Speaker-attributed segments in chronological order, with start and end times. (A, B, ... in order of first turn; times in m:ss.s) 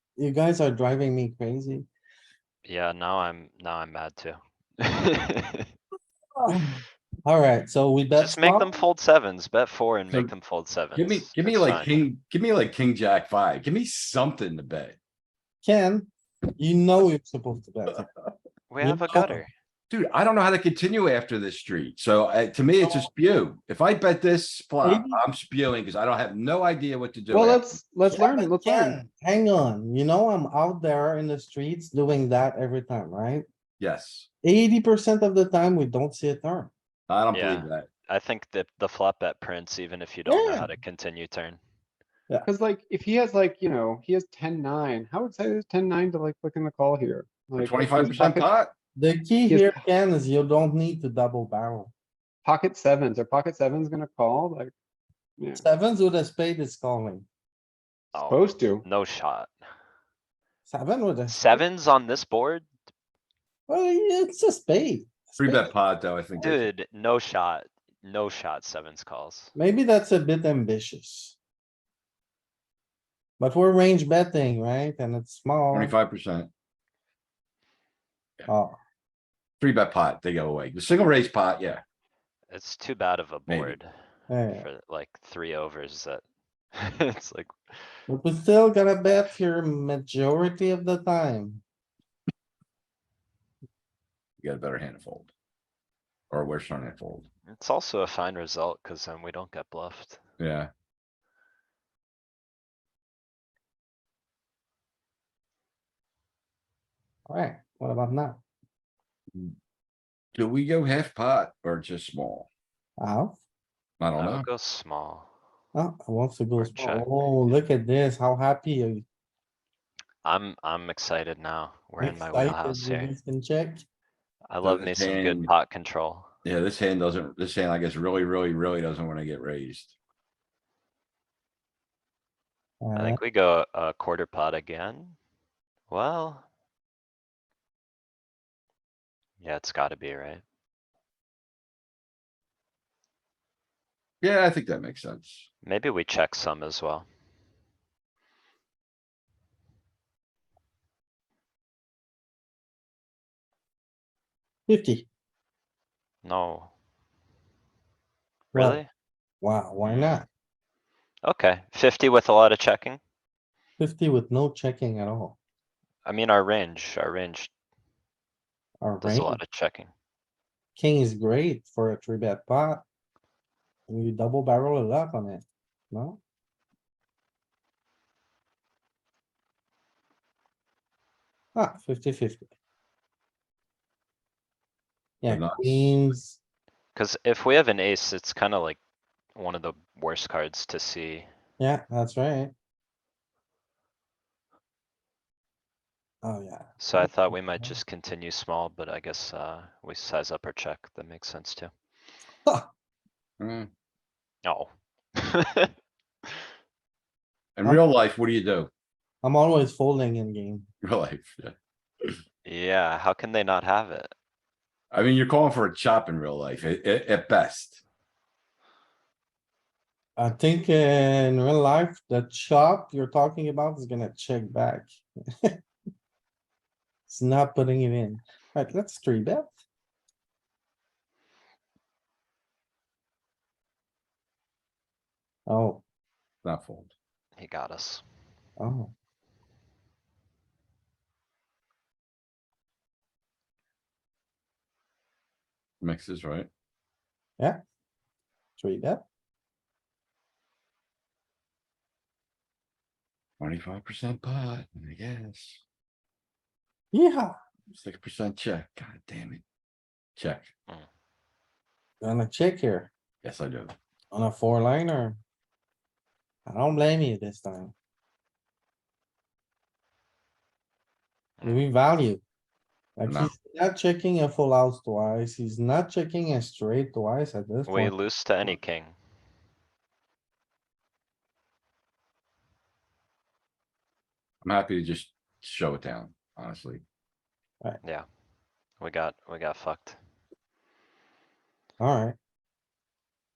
0:00.2-0:01.8 A
0:02.6-0:05.6 B
0:06.4-0:08.7 A
0:08.2-0:12.0 B
0:10.9-0:15.0 C
0:15.6-0:18.1 A
0:18.7-0:19.5 B
0:18.8-0:19.4 A
0:19.9-0:27.8 C
0:22.8-0:23.1 A
0:24.8-0:25.2 A
0:27.3-0:29.0 D
0:28.1-0:33.4 A
0:33.8-0:34.3 C
0:34.4-0:36.7 A
0:37.1-0:37.9 C
0:37.3-0:41.6 B
0:40.2-0:40.8 A
0:42.4-0:48.5 D
0:47.6-0:48.7 C
0:49.0-0:51.9 A
0:49.5-0:49.8 D
0:52.4-0:54.7 D
0:55.4-0:55.6 D
0:55.5-0:57.2 A
0:58.1-0:58.8 D
0:58.1-0:59.5 B
1:00.6-1:01.6 A
1:01.3-1:02.7 B
1:03.7-1:05.7 A
1:05.4-1:06.7 C
1:06.4-1:09.5 B
1:09.6-1:11.4 A
1:13.4-1:15.9 A
1:15.7-1:16.5 C
1:18.5-1:18.8 A
1:19.6-1:21.8 C
1:22.5-1:23.9 B
1:23.5-1:23.7 C
1:24.3-1:24.7 A
1:24.5-1:26.2 B
1:26.8-1:27.9 B
1:28.1-1:31.6 A
1:34.4-1:35.3 C
1:36.3-1:37.3 C
1:37.5-1:40.2 B
1:40.4-1:40.7 C
1:47.3-1:48.4 A
1:50.3-1:52.5 C
1:53.0-1:53.4 A
1:54.0-1:54.5 C
1:54.2-1:55.3 B
1:55.7-1:59.0 A
1:56.6-1:57.3 B
2:00.2-2:03.1 B
2:02.0-2:03.8 A
2:04.5-2:06.3 B
2:04.6-2:05.5 C
2:06.4-2:09.9 C
2:12.8-2:13.2 A
2:13.0-2:15.2 B
2:15.9-2:16.4 B
2:19.4-2:20.4 B
2:24.2-2:25.4 C
2:25.6-2:27.1 B
2:34.7-2:35.1 A
2:36.2-2:36.7 B
2:38.5-2:38.8 A
2:38.5-2:38.9 B
2:39.4-2:40.2 A
2:39.8-2:40.2 B
2:41.2-2:43.0 B
2:43.8-2:45.4 A
2:46.0-2:47.5 B
2:48.8-2:49.4 A
2:49.0-2:49.9 B
2:50.8-2:52.8 A
2:53.9-2:56.2 A
3:01.5-3:02.4 A
3:05.2-3:06.4 A
3:05.3-3:05.9 C
3:06.9-3:08.8 B
3:09.3-3:11.3 B
3:11.6-3:12.5 A
3:16.2-3:17.7 A
3:16.8-3:21.7 B
3:23.4-3:23.7 C
3:24.4-3:25.7 B
3:27.6-3:28.7 C
3:29.2-3:30.7 A
3:30.8-3:32.2 C
3:32.4-3:34.1 B
3:34.9-3:37.8 C
3:40.2-3:45.5 A
3:47.1-3:49.5 A
3:55.5-3:55.8 A
3:56.4-3:56.9 C
3:57.4-3:58.0 B
3:58.6-3:58.9 A
4:05.8-4:06.5 C
4:08.6-4:09.0 A
4:13.4-4:15.6 C
4:16.9-4:17.3 A
4:17.7-4:19.4 C
4:20.2-4:20.5 C
4:22.0-4:22.9 A
4:23.2-4:23.7 C
4:24.1-4:25.2 A
4:26.4-4:27.7 A
4:31.4-4:32.2 A
4:33.0-4:38.6 A
4:37.6-4:38.9 B
4:44.4-4:46.8 C
4:48.8-4:50.0 B
4:51.8-4:52.2 A